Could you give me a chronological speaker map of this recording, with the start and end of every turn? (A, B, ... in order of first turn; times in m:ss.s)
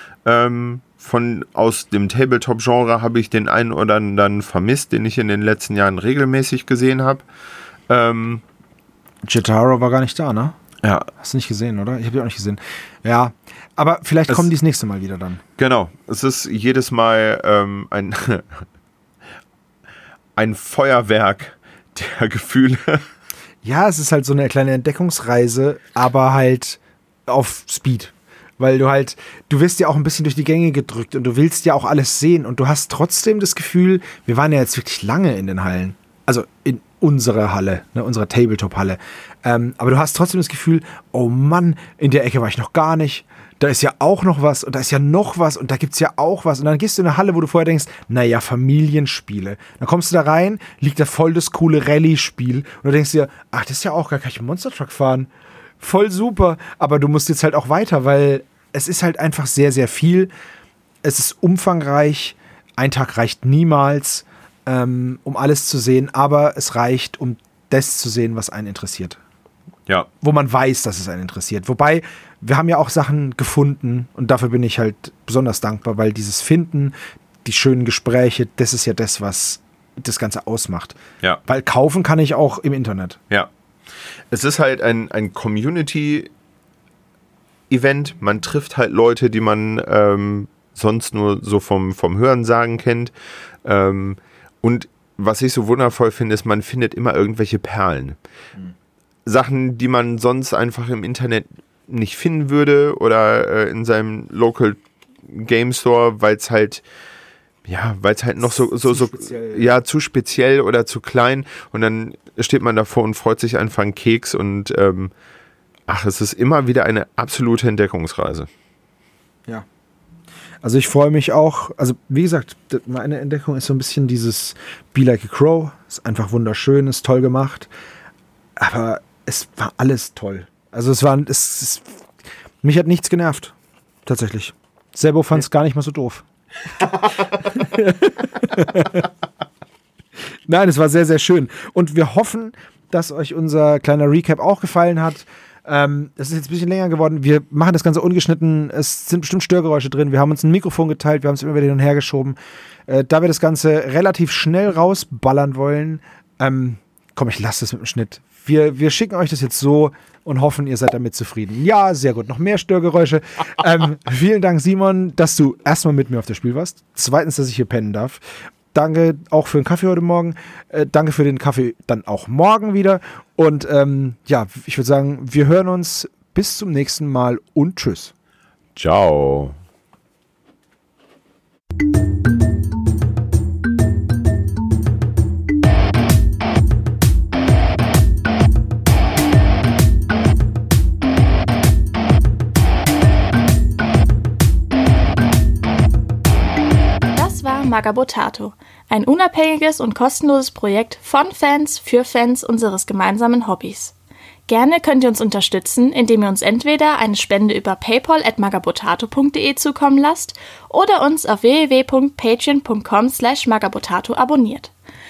0:00.2-0:07.3 A
0:07.9-0:08.4 A
0:09.2-0:10.6 B
0:10.8-0:11.1 A
0:11.2-0:15.4 B
0:15.6-0:18.6 A
0:20.4-0:23.0 A
0:23.6-0:55.3 B
0:55.8-1:00.3 B
1:01.0-1:09.2 B
1:10.2-1:23.2 B
1:24.3-1:26.3 A
1:27.7-1:33.1 A
1:33.6-1:38.2 A
1:39.3-1:46.8 A
1:47.6-1:55.1 A
1:48.5-1:49.7 B
1:55.9-1:58.5 A
2:00.6-2:07.7 B
2:08.6-2:11.9 B
2:12.6-2:13.5 B
2:14.1-2:16.2 B
2:17.5-2:19.1 B
2:20.5-2:32.4 B
2:32.9-2:48.2 B
2:48.7-2:58.1 B
2:58.8-2:59.6 A
3:17.2-3:23.9 C
3:24.5-3:34.7 C